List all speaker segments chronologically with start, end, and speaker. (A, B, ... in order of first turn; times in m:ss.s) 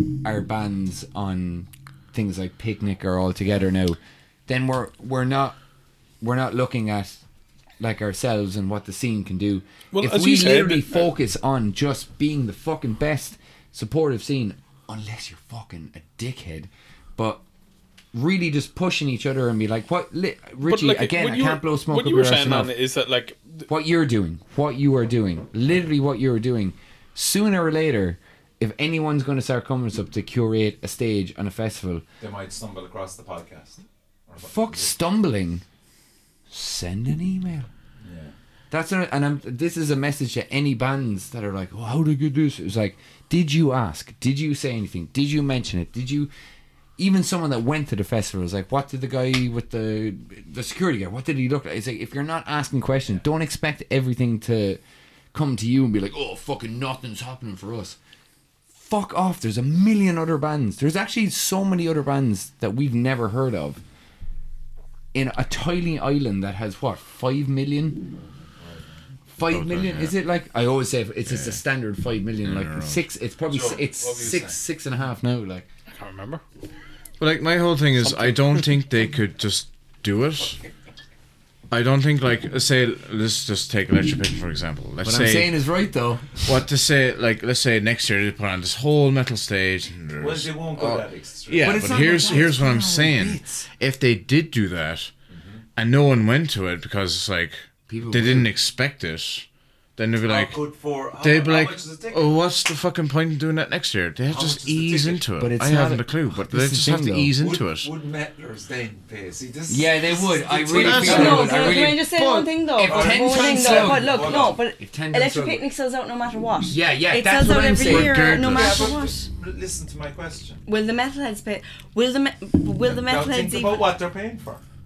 0:00.2-0:05.6 A
0:06.2-0:07.2 A
0:07.8-0:17.4 A
0:09.9-0:11.1 B
0:18.1-0:22.7 A
0:20.6-0:23.7 B
0:23.7-0:32.0 A
0:32.2-0:34.9 C
0:34.4-0:35.6 A
0:36.5-0:37.7 A
0:38.0-0:38.3 C
0:38.7-0:46.3 A
0:47.0-0:54.8 A
0:55.3-0:58.0 A
0:58.7-1:03.8 A
1:05.1-1:08.0 A
1:08.6-1:08.9 C
1:09.3-1:15.6 A
1:09.5-1:10.1 D
1:11.2-1:11.6 D
1:12.4-1:13.0 D
1:13.5-1:14.6 C
1:15.9-1:16.4 B
1:17.2-1:20.6 D
1:18.0-1:18.6 B
1:21.7-1:25.6 D
1:25.0-1:26.6 A
1:26.4-1:35.1 D
1:30.2-1:33.7 C
1:31.6-1:32.5 A
1:35.3-1:35.6 C
1:35.8-1:39.4 D
1:37.9-1:38.5 A
1:40.0-1:40.6 D
1:40.2-1:42.3 C
1:41.2-1:47.9 D
1:44.3-1:45.2 C
1:45.4-1:47.3 A
1:47.4-1:51.9 C
1:49.7-1:55.6 A
1:50.7-1:51.8 D
1:50.8-1:59.3 E
1:52.8-1:54.6 C
1:56.7-1:58.4 A
1:57.7-1:58.9 D
1:58.4-2:00.6 C
2:00.7-2:03.9 E
2:02.8-2:04.6 C